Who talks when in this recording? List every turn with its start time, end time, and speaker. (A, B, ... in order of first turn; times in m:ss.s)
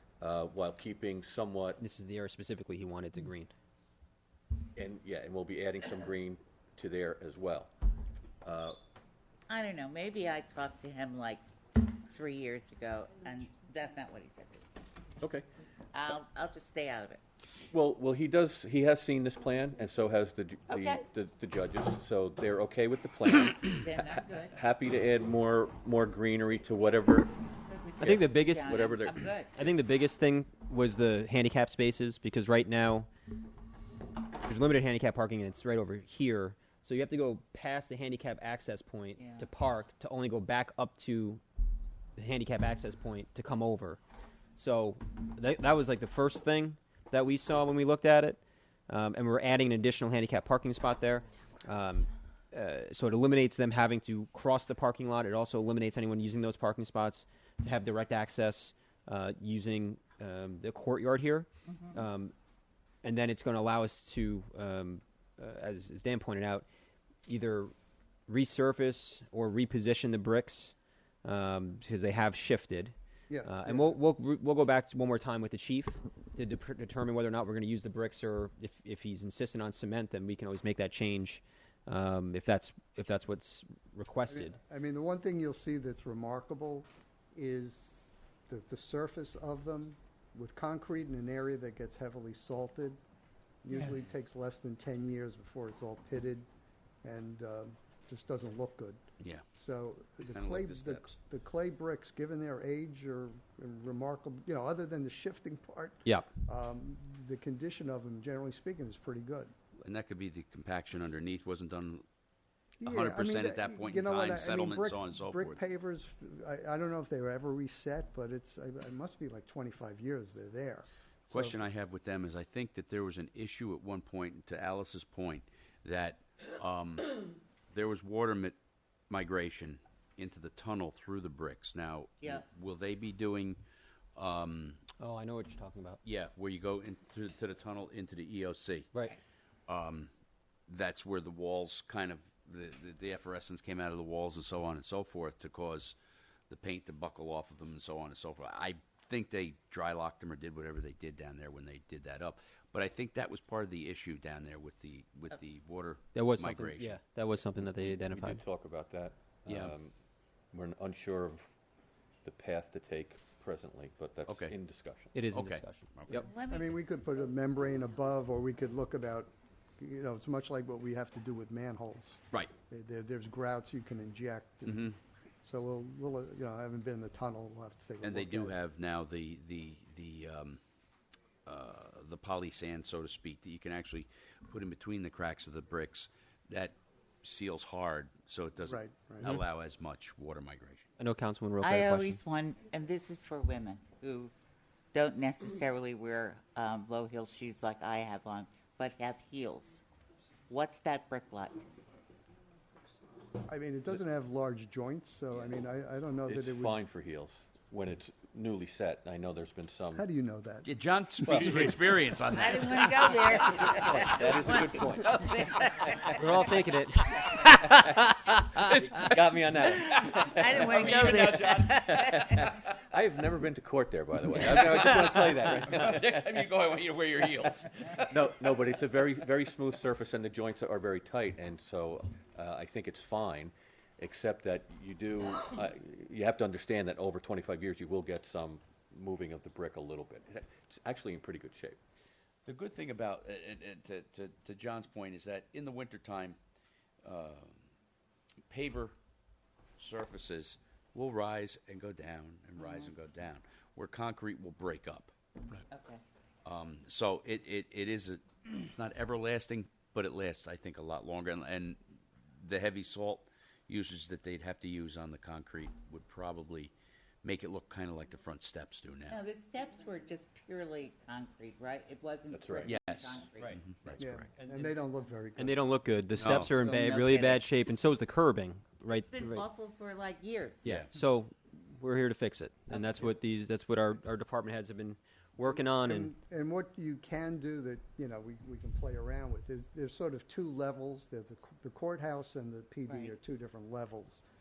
0:00.2-0:01.8 A
0:01.8-0:03.5 B
0:04.8-0:07.7 A
0:08.4-0:08.8 A
0:09.5-0:11.4 C
0:12.1-0:14.7 C
0:15.2-0:15.5 A
0:15.9-0:17.2 C
0:17.7-0:27.3 A
0:20.7-0:21.0 C
0:23.8-0:24.6 C
0:27.7-0:29.6 C
0:28.0-0:29.3 A
0:28.0-0:28.8 B
0:29.6-0:33.1 B
0:34.4-0:41.4 B
0:39.2-0:39.5 C
0:42.2-0:44.0 B
0:44.6-1:02.3 B
1:01.7-1:02.0 C
1:03.0-1:06.7 B
1:07.3-1:07.7 B
1:08.3-1:12.9 B
1:13.3-1:14.0 D
1:13.4-1:24.6 B
1:24.3-1:33.0 D
1:33.6-1:36.5 D
1:33.7-1:34.0 C
1:37.0-1:39.0 D
1:39.5-1:49.5 D
1:40.3-1:41.2 E
1:49.8-1:52.0 E
1:52.8-2:01.6 D
1:52.9-1:55.6 E
2:01.3-2:07.2 E
2:07.7-2:08.6 E
2:09.1-2:13.6 E
2:14.2-2:14.8 E
2:15.0-2:16.0 B
2:16.0-2:18.9 E
2:19.7-2:20.1 E
2:20.7-2:26.0 E
2:26.5-2:37.0 E
2:36.2-2:38.4 B
2:37.9-2:39.9 A
2:39.5-2:39.7 E
2:40.5-2:41.5 A
2:42.2-2:45.2 A
2:44.2-2:44.5 E
2:45.1-2:46.3 B
2:45.3-2:46.2 E
2:46.1-2:46.7 C
2:46.5-2:58.6 D
2:54.7-2:55.0 E
2:58.0-3:00.6 E
3:01.5-3:10.9 E
3:08.7-3:09.3 D
3:11.0-3:12.2 B
3:11.6-3:14.3 C
3:14.9-3:19.8 C
3:20.5-3:21.6 C
3:23.4-3:26.8 D
3:26.3-3:30.0 A
3:29.9-3:30.7 D
3:30.6-3:34.0 E
3:31.2-3:31.8 A
3:32.3-3:36.5 C
3:33.6-3:36.1 A
3:36.1-3:39.1 B
3:37.2-3:46.4 A
3:40.1-3:42.4 C
3:40.1-3:42.0 E
3:44.3-3:48.1 E
3:48.1-4:01.8 A
4:02.5-4:06.4 E
4:07.0-4:07.6 E
4:08.5-4:08.9 E
4:09.8-4:15.6 E
4:12.6-4:12.9 C
4:15.7-4:16.0 C
4:16.4-4:21.8 E
4:22.4-4:29.2 E
4:29.1-4:33.6 C
4:32.3-4:32.8 A
4:32.6-4:34.2 E
4:33.4-4:34.8 B
4:34.0-4:35.6 D
4:35.4-4:39.5 B
4:36.2-4:36.5 E
4:36.4-4:36.8 D
4:36.6-4:37.4 C
4:38.9-4:40.8 C
4:40.6-4:46.1 B
4:45.4-4:54.2 D
4:52.9-4:53.1 C